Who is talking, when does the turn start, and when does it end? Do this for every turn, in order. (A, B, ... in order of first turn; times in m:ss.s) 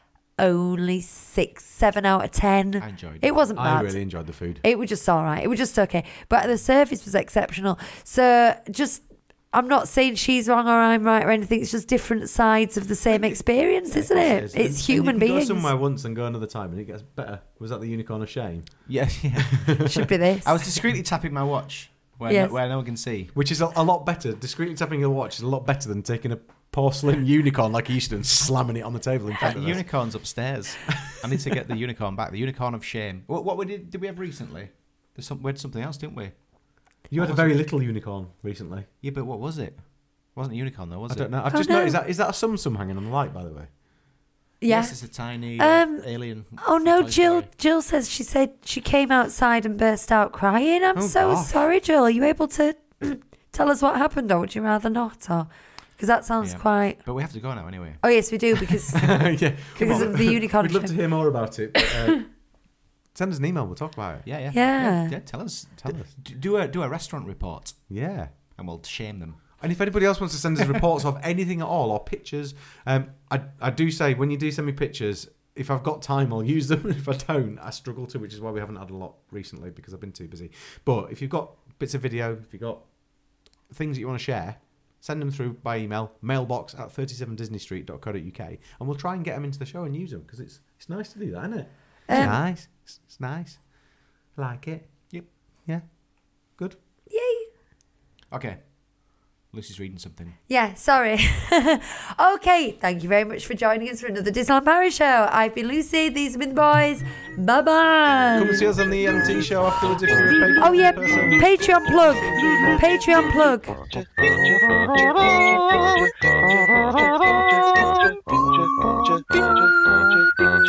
0:00.4-0:04.0 A
0:02.8-0:03.5 B
0:03.5-0:04.6 C
0:04.6-0:15.7 A
0:13.1-0:19.1 C
0:18.8-0:23.3 B
0:19.8-0:20.6 A
0:22.3-0:22.6 A
0:23.3-0:29.8 C
0:29.4-0:36.4 B
0:30.9-0:31.4 C
0:37.1-0:37.6 B
0:37.1-0:38.9 C
0:39.0-0:41.3 B
0:41.1-0:43.7 C
0:41.5-0:42.0 A
0:44.6-0:45.0 A
0:44.7-0:47.5 B
0:45.6-0:57.0 A
0:50.9-0:51.6 C
0:56.4-0:58.2 B
0:58.0-1:00.9 A
0:59.0-1:02.3 C
1:01.8-1:02.2 A
1:03.1-1:04.3 C
1:04.2-1:07.9 B
1:04.5-1:05.1 A
1:05.8-1:06.1 C
1:07.9-1:08.3 C
1:08.5-1:09.6 B
1:09.6-1:22.9 C
1:23.7-1:33.7 C
1:32.1-1:32.4 A
1:34.3-1:35.1 C
1:36.5-1:36.8 C
1:37.1-1:37.5 A
1:38.3-1:40.4 B
1:40.5-1:48.6 A
1:48.3-1:51.5 C
1:50.6-1:53.8 A
1:54.0-1:59.8 B